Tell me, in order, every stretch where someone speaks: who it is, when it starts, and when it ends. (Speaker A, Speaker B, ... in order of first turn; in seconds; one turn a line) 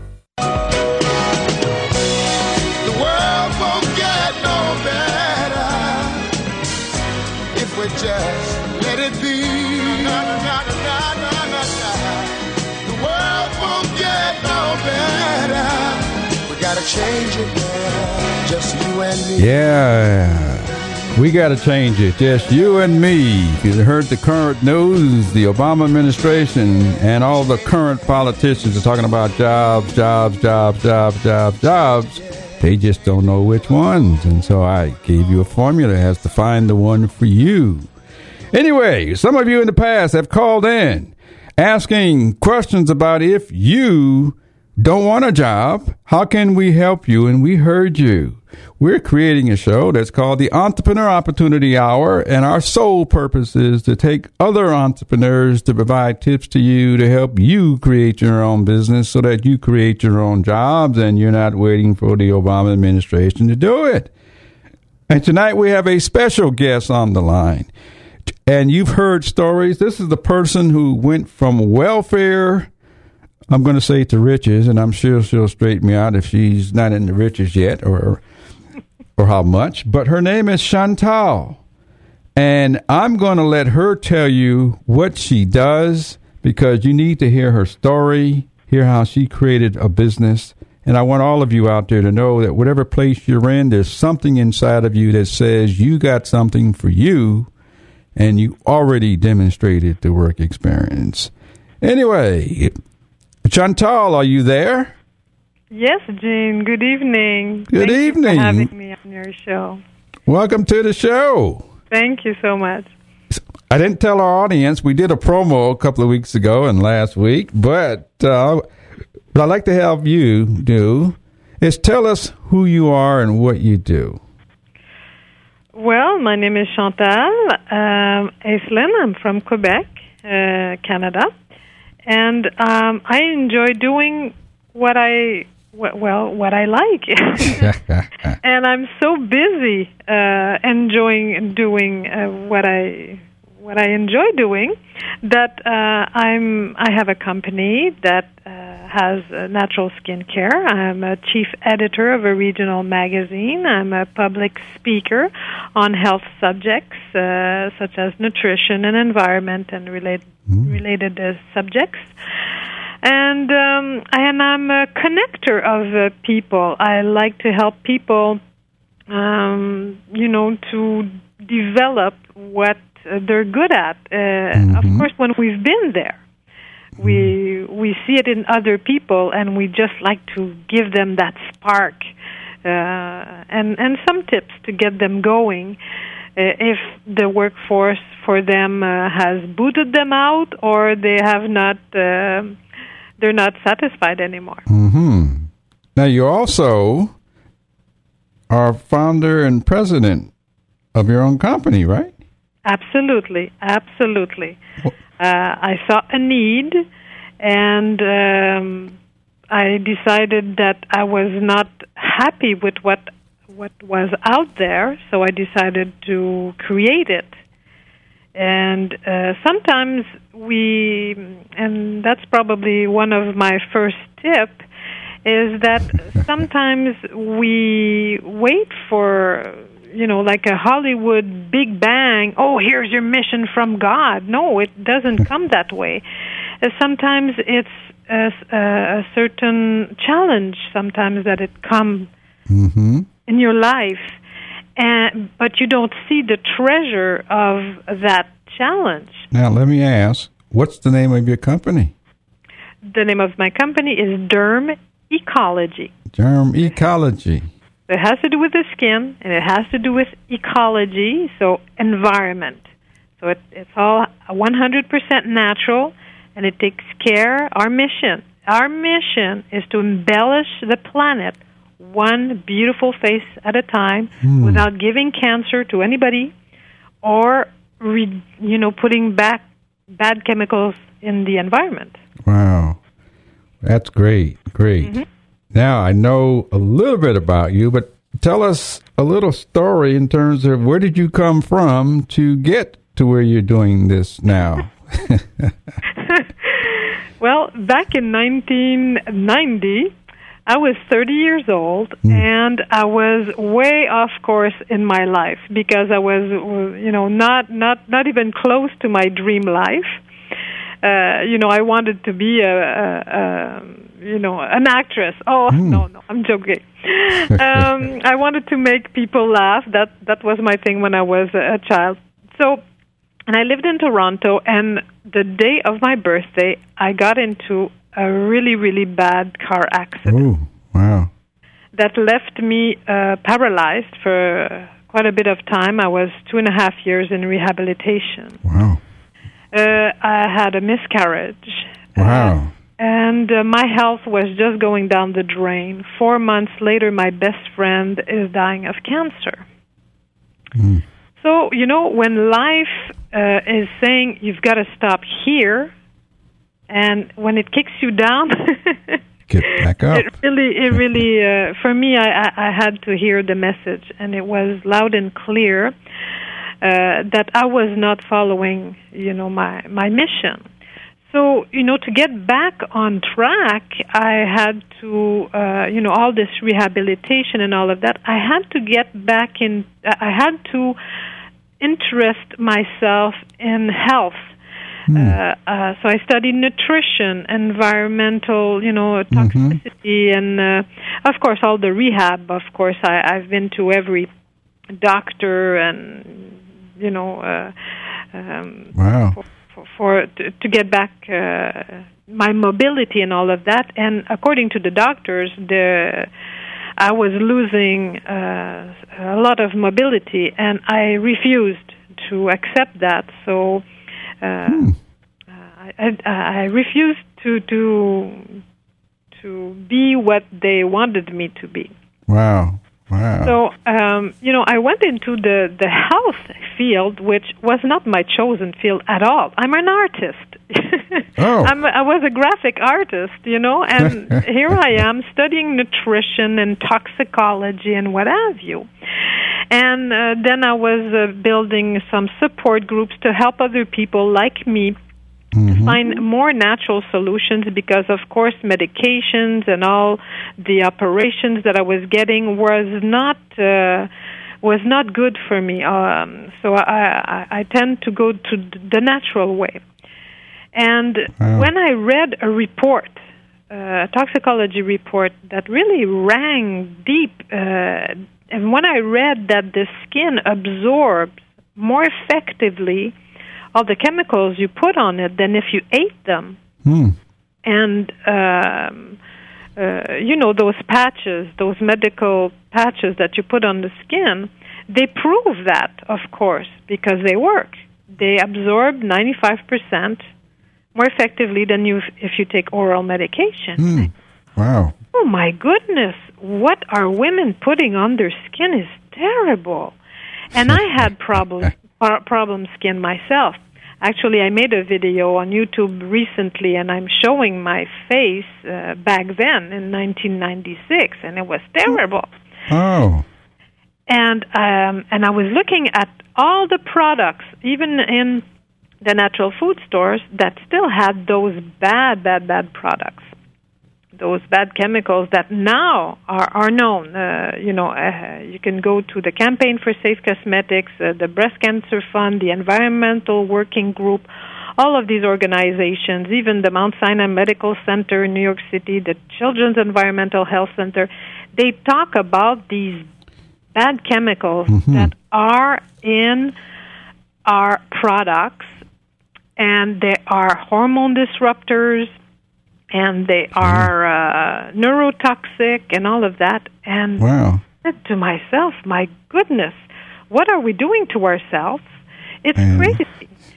Speaker A: 2.8-6.3
Speaker A: 7.5-19.5
Speaker B: 19.4-37.9
Speaker B: 38.5-64.1
Speaker B: 65.1-67.7
Speaker B: 68.5-72.7
Speaker B: 73.5-78.2
Speaker B: 79.2-81.6
Speaker B: 82.3-97.5
Speaker B: 98.1-102.7
Speaker B: 103.4-104.9
Speaker C: 105.7-109.8
Speaker B: 107.7-108.7
Speaker B: 110.2-111.6
Speaker C: 111.9-112.9
Speaker B: 113.3-118.6
Speaker B: 119.3-124.2
Speaker C: 125.7-131.3
Speaker C: 132.1-137.7
Speaker B: 137.4-138.3
Speaker C: 138.4-162.1
Speaker C: 163.0-168.4
Speaker C: 169.1-176.2
Speaker B: 174.6-175.1
Speaker B: 177.0-177.3
Speaker C: 177.0-182.1
Speaker C: 182.6-185.8
Speaker C: 186.3-192.6
Speaker C: 193.2-194.6
Speaker B: 194.7-197.1
Speaker B: 198.5-200.3
Speaker B: 200.9-202.1
Speaker C: 202.7-204.6
Speaker C: 205.2-206.8
Speaker C: 207.4-208.9
Speaker C: 209.5-217.3
Speaker C: 218.3-224.6
Speaker C: 225.2-236.0
Speaker C: 236.6-242.1
Speaker B: 242.5-243.1
Speaker C: 243.3-244.2
Speaker C: 244.8-249.3
Speaker B: 249.3-251.9
Speaker C: 252.8-255.9
Speaker B: 256.1-257.5
Speaker C: 257.9-262.6
Speaker C: 263.2-276.3
Speaker B: 274.2-274.6
Speaker C: 277.0-279.4
Speaker C: 280.0-282.0
Speaker B: 282.2-282.8
Speaker B: 283.6-285.0
Speaker B: 285.5-295.5
Speaker C: 296.0-299.9
Speaker C: 300.5-310.0
Speaker C: 310.8-322.6
Speaker B: 315.5-315.8
Speaker C: 323.3-330.2
Speaker B: 330.1-331.1
Speaker C: 331.7-338.4
Speaker B: 338.4-338.8
Speaker C: 339.5-349.4
Speaker B: 341.9-342.5
Speaker B: 350.6-350.8
Speaker C: 351.2-355.7
Speaker C: 356.7-365.7
Speaker B: 359.3-360.1
Speaker C: 366.6-370.4
Speaker C: 371.1-380.8
Speaker C: 381.6-384.3
Speaker B: 384.9-385.2
Speaker C: 384.9-394.1
Speaker B: 389.1-389.6
Speaker C: 394.8-397.5
Speaker C: 398.1-398.7
Speaker B: 398.7-399.2
Speaker C: 399.6-406.1
Speaker C: 406.8-413.6
Speaker C: 414.2-414.7
Speaker B: 414.5-414.8
Speaker C: 415.6-418.4
Speaker C: 419.2-421.7
Speaker B: 422.1-423.3
Speaker C: 423.2-438.7
Speaker B: 431.2-431.5
Speaker C: 439.5-444.8
Speaker B: 445.3-445.8
Speaker C: 445.5-453.9
Speaker C: 454.4-459.6
Speaker C: 460.5-463.0
Speaker B: 461.2-461.5
Speaker C: 463.5-472.9
Speaker C: 473.5-476.4
Speaker B: 476.6-477.0
Speaker C: 477.4-479.0
Speaker C: 479.6-490.0
Speaker C: 490.7-493.8
Speaker B: 493.6-494.7
Speaker C: 494.9-499.7
Speaker C: 500.3-512.1
Speaker B: 512.5-513.0
Speaker C: 513.9-518.2
Speaker C: 518.8-523.1
Speaker C: 524.0-542.9
Speaker C: 543.5-546.3
Speaker B: 544.5-544.9
Speaker C: 547.2-548.5
Speaker C: 549.4-551.9
Speaker C: 552.7-557.0
Speaker B: 553.4-553.7
Speaker B: 557.0-557.4
Speaker C: 557.6-561.6
Speaker C: 562.2-563.0
Speaker B: 562.4-562.8